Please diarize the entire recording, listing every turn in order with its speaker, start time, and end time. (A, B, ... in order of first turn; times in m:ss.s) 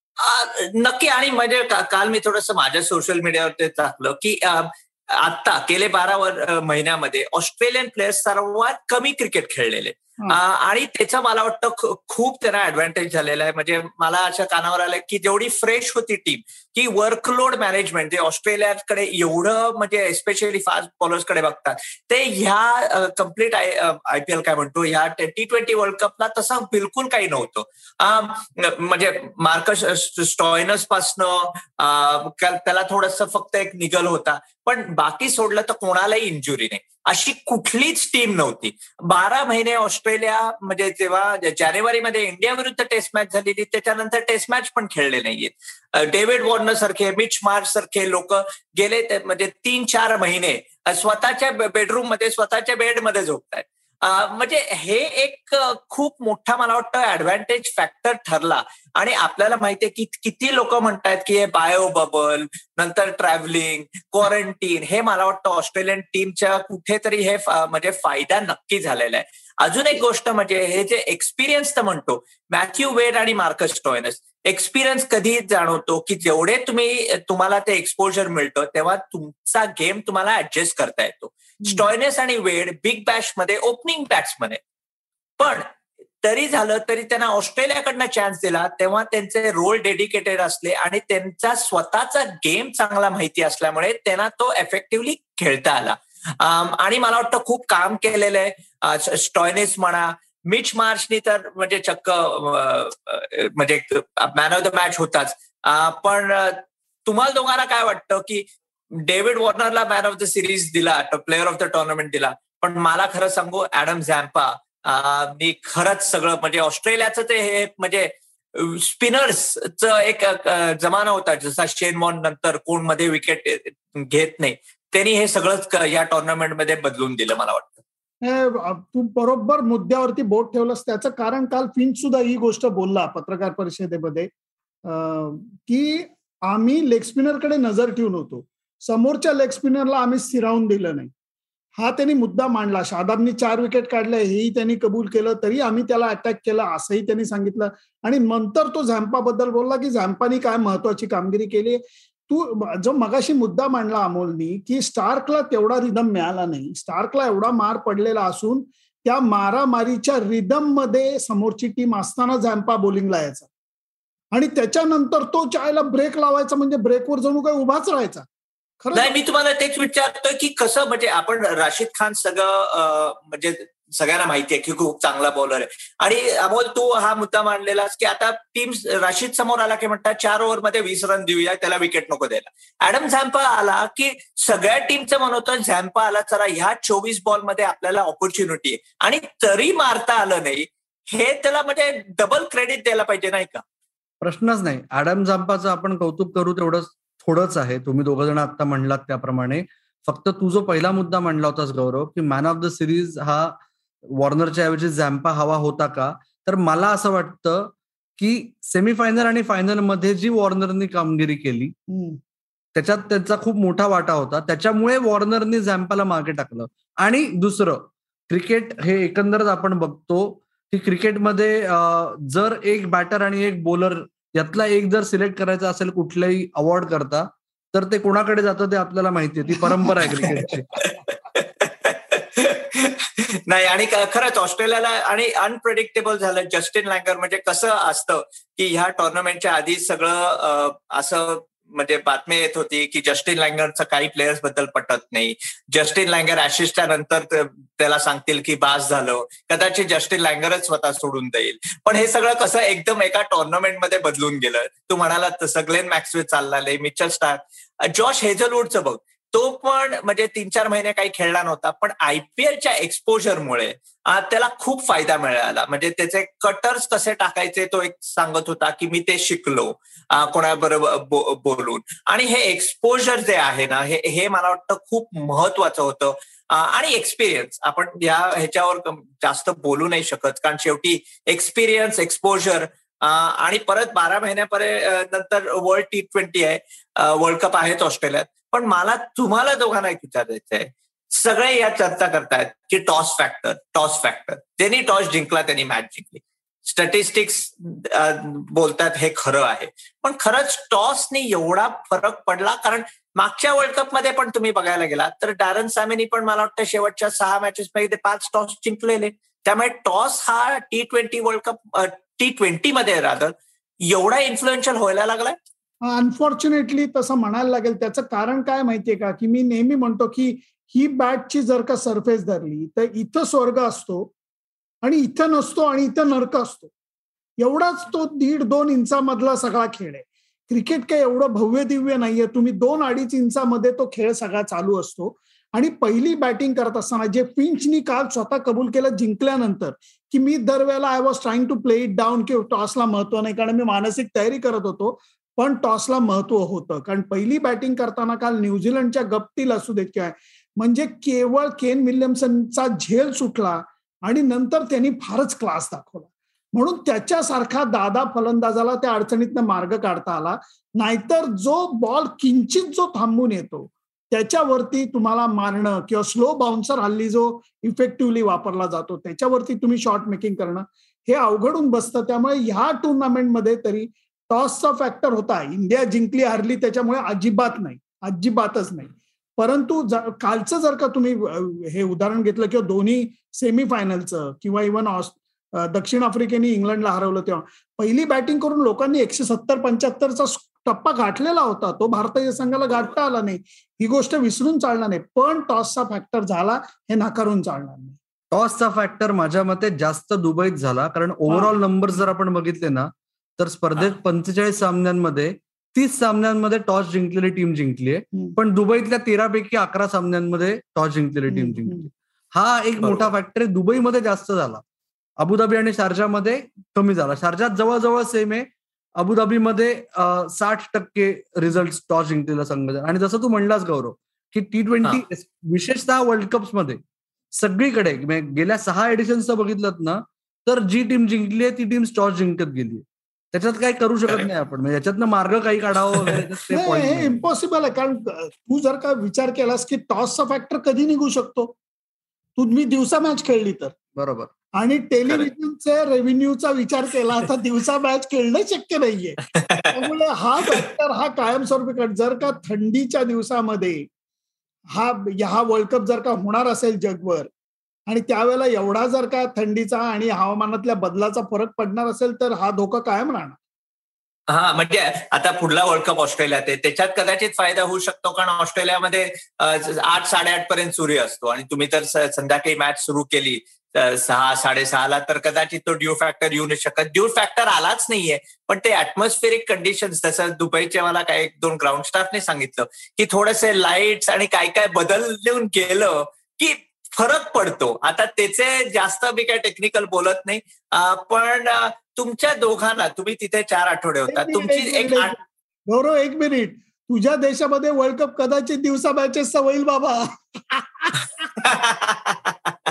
0:00.2-1:24.6 A
1:25.4-1:25.6 A
1:26.2-1:48.5 A
1:49.0-2:07.8 A
2:08.2-2:14.3 B
2:14.9-2:21.1 B
2:21.8-2:43.5 B
2:44.3-2:48.3 B
2:48.8-2:49.2 B
2:48.9-3:13.6 A
3:14.2-3:23.6 C
3:24.1-3:31.8 C
3:31.9-3:32.2 B
3:32.8-3:50.7 C
3:50.1-5:13.4 A
5:13.9-5:15.4 A
5:15.8-5:24.1 B
5:24.8-5:26.7 B
5:27.4-6:38.0 B
6:38.3-6:54.6 C
6:41.3-6:41.5 B
6:51.3-6:51.9 B
6:55.2-6:58.5 C
6:59.0-7:06.8 C
7:07.4-7:17.2 C
7:15.9-7:16.2 A
7:16.5-7:21.6 B
7:22.4-7:23.8 B
7:24.0-7:24.3 C
7:24.6-7:29.2 B
7:29.4-7:29.7 A
7:29.7-7:33.8 B
7:34.8-7:37.3 B
7:37.9-7:43.4 B
7:44.3-8:15.1 A
8:14.1-8:21.0 B
8:21.4-8:22.2 A